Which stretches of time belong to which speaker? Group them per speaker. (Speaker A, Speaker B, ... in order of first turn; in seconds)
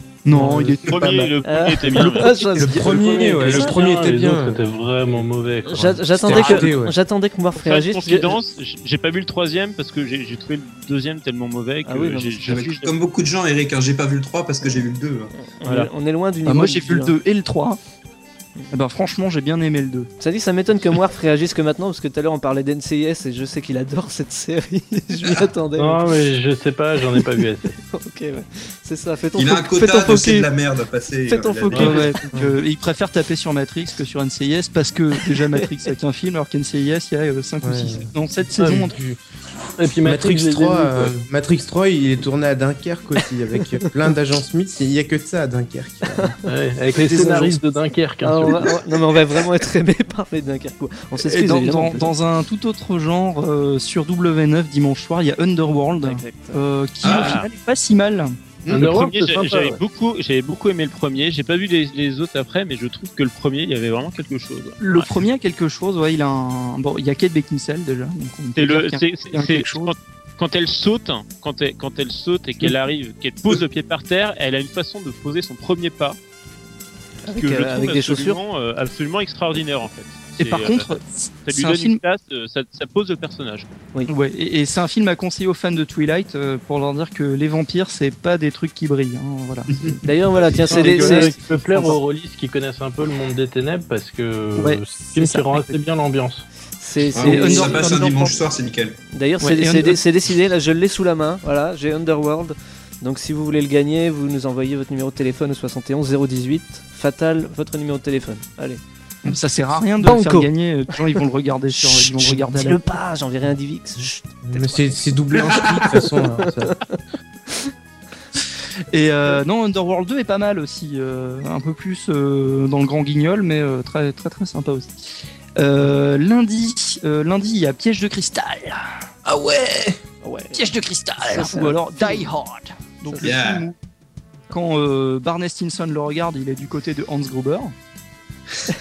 Speaker A: 0.2-1.3, 6.3-6.7, 16.5-17.8, 18.7-20.1, 31.8-39.0, 51.2-59.0, 64.8-69.9, 80.4-82.0, 84.1-90.2, 90.8-91.4, 94.6-95.8, 97.1-98.6, 99.4-100.0, 109.2-113.0, 118.9-129.8, 130.5-133.8, 134.5-137.7
Speaker B: 0.3-1.3, 2.6-4.6, 6.2-7.0, 37.6-39.2, 40.0-46.4, 90.8-91.1, 114.5-116.8
Speaker C: 0.9-2.6, 7.6-12.9, 15.7-15.9, 31.7-32.0, 57.0-57.5, 58.8-65.1, 68.6-76.2, 77.3-80.9, 81.5-83.7
Speaker D: 1.4-3.8, 5.7-8.4, 11.8-12.7, 15.3-17.1, 20.2-26.1, 27.9-30.5, 31.3-32.2, 35.2-35.9, 46.9-47.6, 48.2-52.1, 56.0-56.6, 77.3-78.4, 90.0-92.0, 96.8-98.3, 99.1-108.8, 110.0-111.2, 111.7-115.0, 116.1-117.0, 130.2-130.7, 131.2-132.3
Speaker E: 2.9-6.0, 25.8-27.8, 38.6-38.9, 39.8-41.2, 46.5-48.8, 58.7-59.8, 90.7-96.5
Speaker F: 12.5-15.3, 29.4-32.1, 57.0-57.4, 97.2-99.0, 115.4-115.9, 133.2-133.7